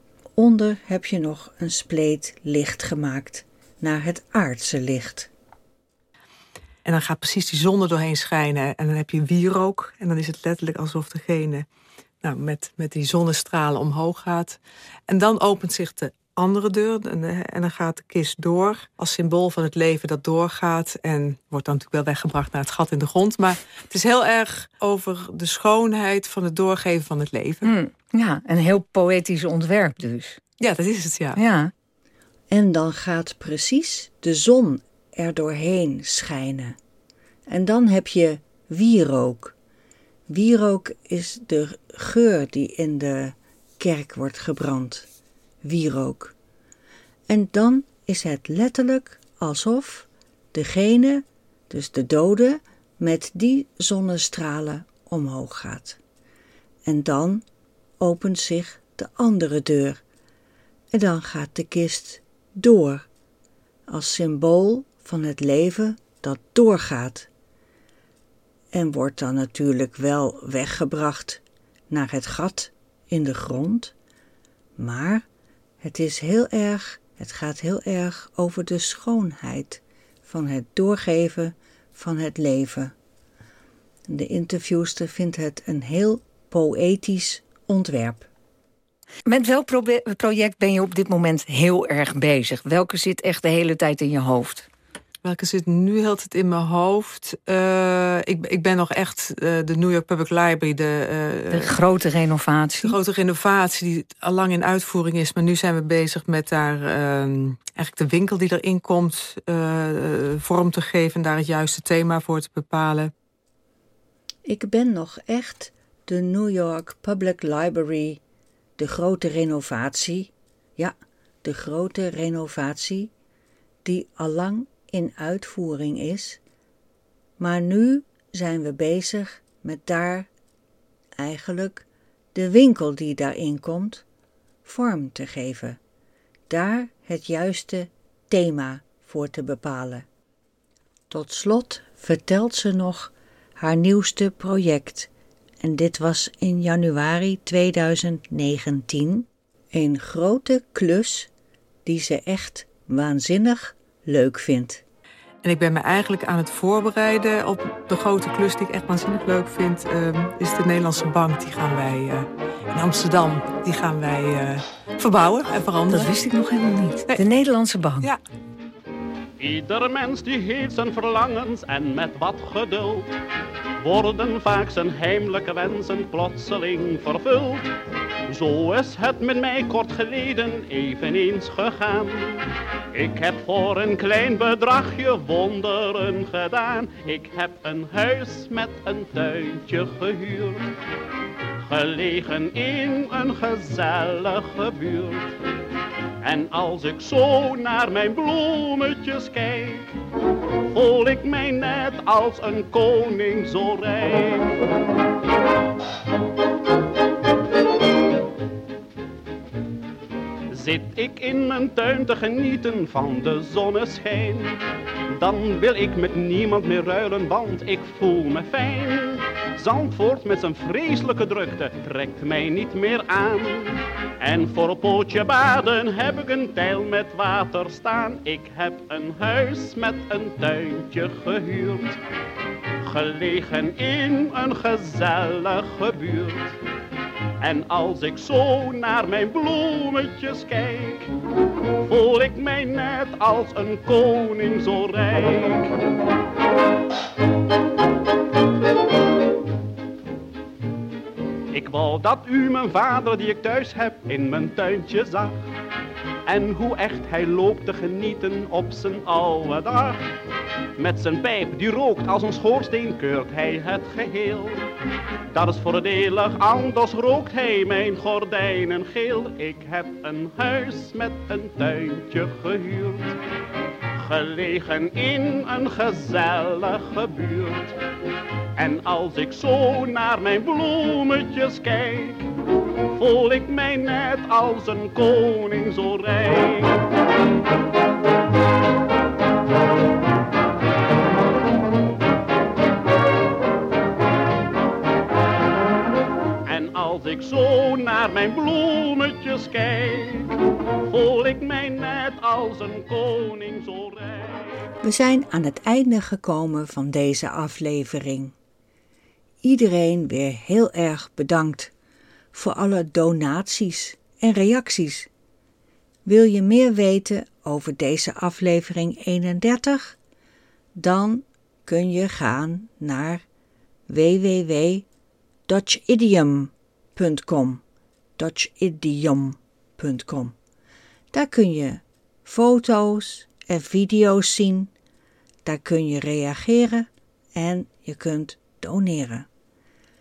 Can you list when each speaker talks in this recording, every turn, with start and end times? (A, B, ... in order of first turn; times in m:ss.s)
0:00.4-0:05.3 A
0:06.8-0:11.6 B
0:12.2-0:27.7 B
0:27.6-0:30.4 C
0:30.6-0:31.4 B
0:31.3-0:31.7 C
0:32.5-0:36.8 A
0:37.5-0:39.5 A
0:40.3-0:45.1 A
0:45.6-0:46.3 A
0:47.3-0:56.0 A
0:56.8-0:57.4 A
0:58.0-1:00.0 A
1:00.9-1:03.1 A
1:03.9-1:07.3 A
1:08.7-1:13.9 A
1:14.8-1:15.2 A
1:15.8-1:22.9 A
1:24.1-1:28.3 A
1:29.2-1:34.7 C
1:35.2-1:41.8 B
1:41.5-1:42.9 C
1:42.8-1:53.1 B
1:54.4-1:58.2 A
1:58.8-2:03.1 A
2:03.8-2:06.4 A
2:07.4-2:10.3 A
2:11.2-2:14.0 A
2:14.6-2:15.8 A
2:16.5-2:20.0 A
2:21.1-2:31.3 A
2:31.8-2:34.8 A
2:35.4-2:46.1 B
2:45.9-2:48.1 C
2:49.4-2:53.1 D
2:53.8-2:57.7 D
2:58.3-3:10.7 D
3:11.6-3:15.3 D
3:16.2-3:19.9 D
3:20.7-3:24.6 D
3:30.5-3:52.0 D
3:52.8-3:56.6 D
3:57.4-4:01.1 D
4:01.8-4:05.8 D
4:11.5-4:15.4 D
4:16.3-4:20.0 D
4:20.8-4:24.7 D
4:25.3-4:33.2 D
4:33.9-4:37.8 D
4:38.6-4:42.3 D
4:42.9-4:46.8 D
4:56.4-5:04.5 D
5:04.8-5:08.3 A
5:09.4-5:11.7 A
5:12.3-5:15.1 A
5:16.0-5:20.0 A
5:20.7-5:23.2 A
5:23.9-5:24.8 A
5:25.5-5:27.6 A
5:28.2-5:30.3 A
5:31.1-5:34.7 A
5:35.4-5:39.3 A